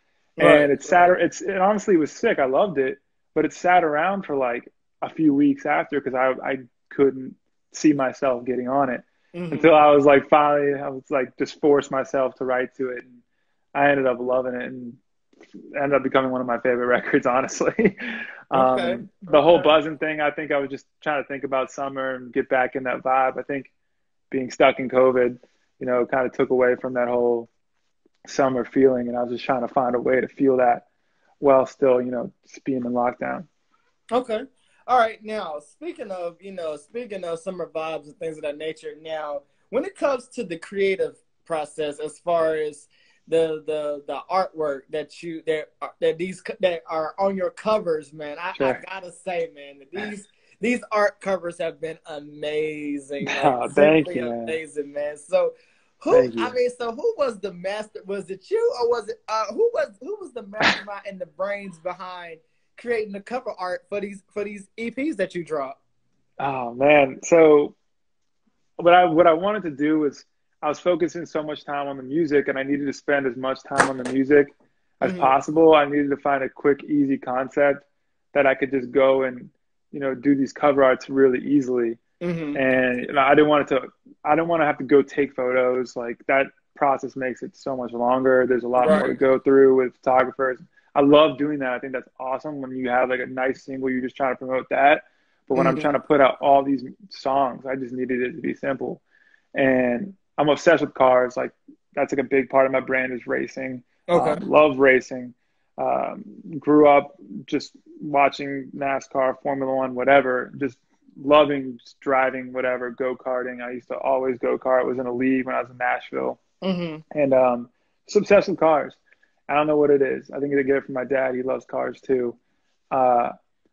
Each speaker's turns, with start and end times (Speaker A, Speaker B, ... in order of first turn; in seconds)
Speaker A: 0.4-1.1, 9.3-9.8, 18.5-19.7, 34.1-65.8, 75.0-75.3, 82.2-82.6, 88.8-89.1, 95.5-95.9, 104.1-104.4, 116.6-117.0
Speaker B: 0.4-13.2, 13.7-15.0, 15.7-23.7, 24.3-27.5, 28.2-30.8, 31.4-33.5, 48.5-48.8, 53.2-54.5, 56.1-56.5, 66.4-67.8, 68.8-82.0, 82.5-99.0, 99.5-116.4, 117.1-122.4, 122.9-123.3